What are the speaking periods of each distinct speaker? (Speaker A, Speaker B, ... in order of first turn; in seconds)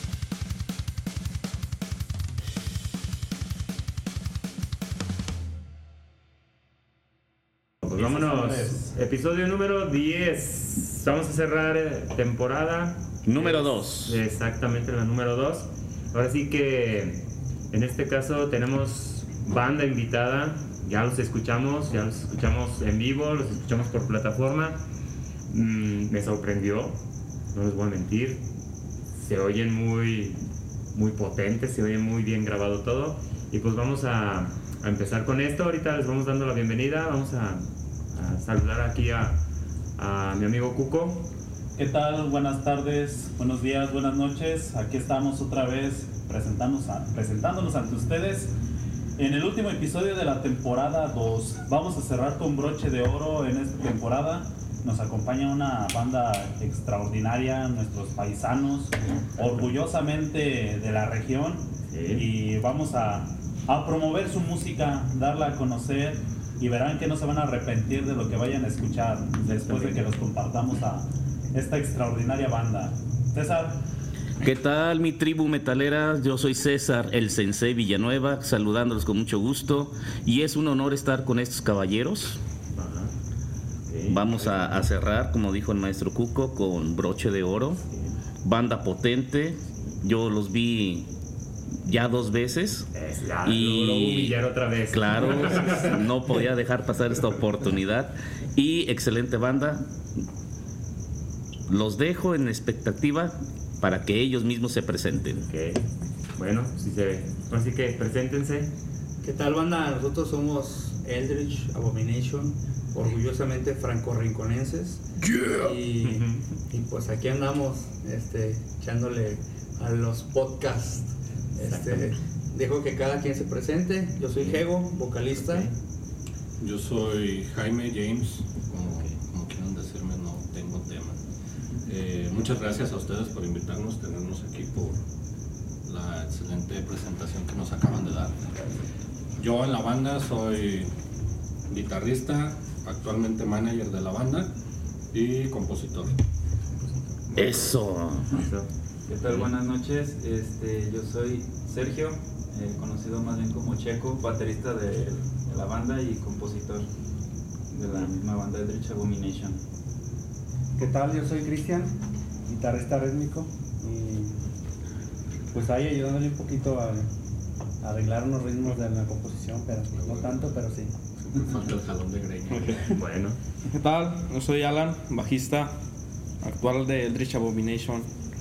Speaker A: 7.8-24.8, 25.5-27.0, 27.5-28.4, 29.1-39.4, 40.0-41.3, 59.1-59.4, 61.9-62.2, 69.7-70.0, 82.7-83.1, 83.9-84.8, 87.8-88.2, 92.9-96.1, 105.4-105.8, 106.4-108.7, 116.0-116.4, 121.6-122.2, 124.4-124.6, 125.3-125.7, 148.3-148.7, 172.9-173.4
Speaker B: 13.3-14.2, 74.4-82.4, 84.1-87.8, 88.4-91.1, 91.8-92.9, 93.5-99.9, 101.7-105.5, 147.3-148.4
Speaker C: 41.8-48.5, 49.2-73.8
Speaker D: 109.2-125.7
Speaker E: 126.6-131.2, 131.8-135.0, 135.8-138.5, 139.4-140.9, 141.7-144.5, 145.1-146.2, 169.9-170.6, 171.2-172.8
Speaker F: 149.1-156.9, 157.7-159.6
Speaker G: 160.8-162.0, 162.5-164.4, 165.5-167.1, 167.8-170.9
Speaker H: 172.5-172.8, 173.7-175.8, 176.4-178.1